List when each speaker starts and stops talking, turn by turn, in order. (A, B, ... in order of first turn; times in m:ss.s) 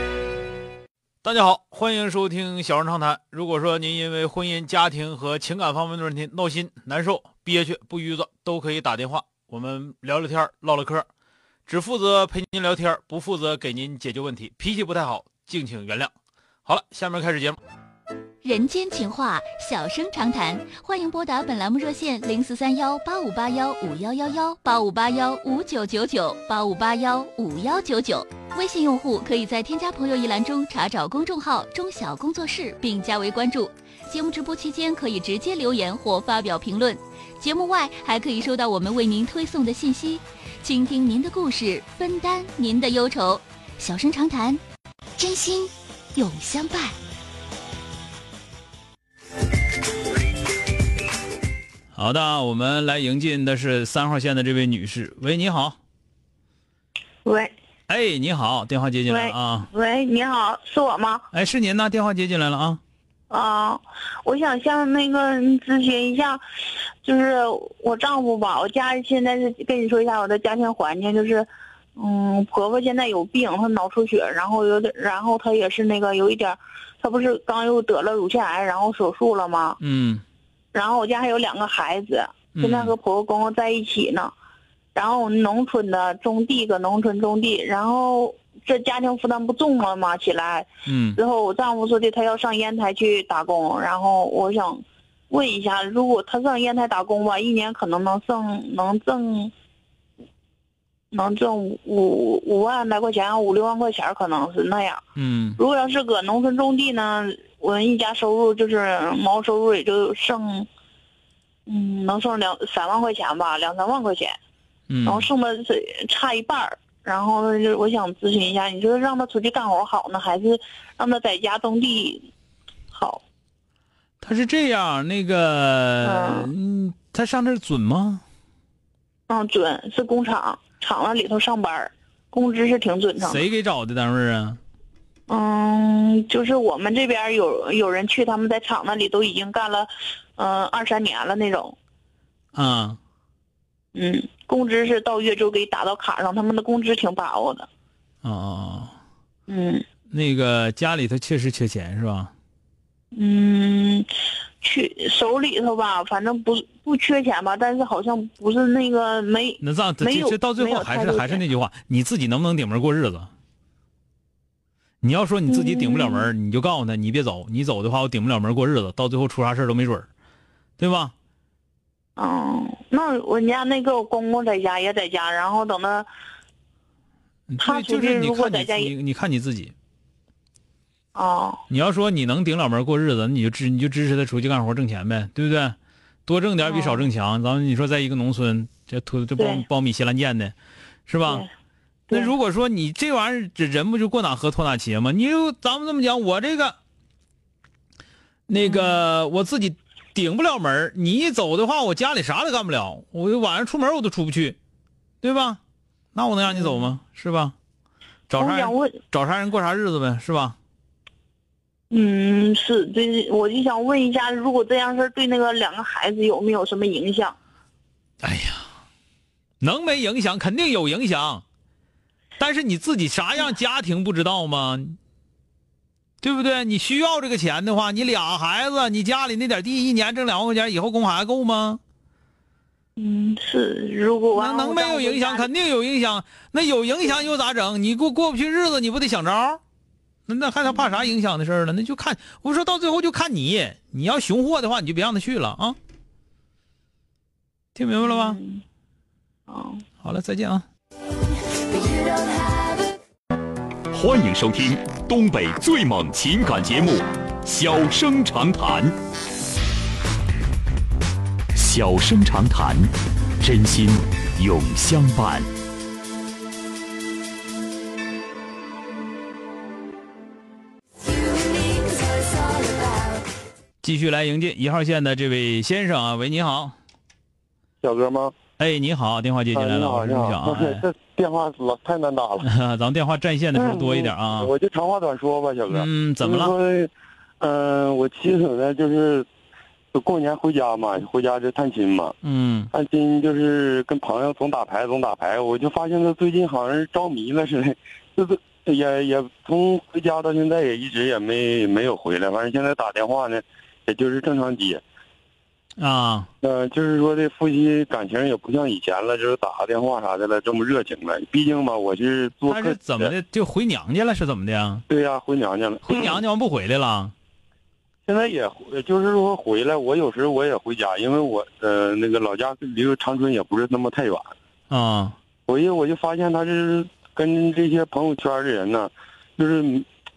0:01.2-0:11.1 A
0:11.6-0:16.1 A
0:16.6-0:17.6 A
0:18.4-0:44.6 B
0:45.2-0:47.0 B
0:51.9-0:55.8 A
0:57.2-0:57.5 C
0:57.9-0:59.7 A
0:59.1-1:01.2 C
1:01.3-1:02.8 A
1:03.3-1:06.4 C
1:07.0-1:19.8 C
1:19.8-1:20.2 A
1:20.7-1:24.3 C
1:22.5-1:22.9 A
1:24.9-1:39.5 C
1:30.8-1:31.2 A
1:41.1-1:45.0 C
1:45.2-1:45.6 A
1:45.6-1:50.7 C
1:51.7-1:54.3 C
1:54.9-1:55.3 A
1:55.0-2:02.3 C
2:02.9-2:03.2 C
2:04.2-2:08.2 A
2:06.0-2:06.5 C
2:09.3-2:13.4 C
2:13.2-2:14.6 A
2:15.3-2:21.8 C
2:22.5-2:23.0 A
2:23.9-2:27.7 C
2:28.2-2:28.9 A
2:29.5-2:29.8 C
2:30.1-2:32.3 A
2:33.1-2:34.1 C
2:34.6-2:41.4 C
2:39.6-2:43.3 A
2:45.0-2:50.1 A
2:45.5-2:46.3 C
2:50.8-2:51.1 A
2:52.2-2:56.1 C
2:57.5-2:59.7 A
2:57.6-2:58.9 C
3:01.1-3:01.6 C
3:01.7-3:10.5 A
3:06.6-3:07.1 C
3:09.4-3:09.6 C
3:11.1-3:11.4 A
3:12.1-3:16.8 A
3:18.5-3:24.6 A
3:18.5-3:19.0 C
3:25.2-3:25.6 A
3:26.1-3:27.5 A
3:26.5-3:26.9 C
3:28.3-3:30.6 A
3:28.4-3:29.0 C
3:31.9-3:37.4 C
3:38.2-3:38.6 A
3:39.6-3:41.4 A
3:42.4-3:45.0 A
3:46.2-3:51.8 A
3:53.0-3:55.5 C
3:54.3-3:59.6 A
4:00.3-4:05.8 A
4:07.7-4:08.4 A
4:08.0-4:08.6 C
4:09.5-4:09.8 C
4:10.0-4:10.6 A
4:13.9-4:18.9 D
4:21.5-4:25.5 D
4:33.8-4:36.7 A
4:37.8-4:38.3 E
4:38.6-4:40.8 A
4:39.5-4:42.5 E
4:42.4-4:44.5 A
4:43.5-4:49.2 E
4:45.7-4:46.5 A
4:49.9-4:52.2 E
4:52.2-4:52.7 A
4:52.7-5:04.8 E
5:05.8-5:06.3 A
5:06.4-5:13.1 E
5:12.5-5:14.8 A
5:14.9-5:16.2 E
5:15.8-5:17.1 A
5:18.1-5:24.3 E
5:24.7-5:25.1 A
5:25.5-5:29.8 E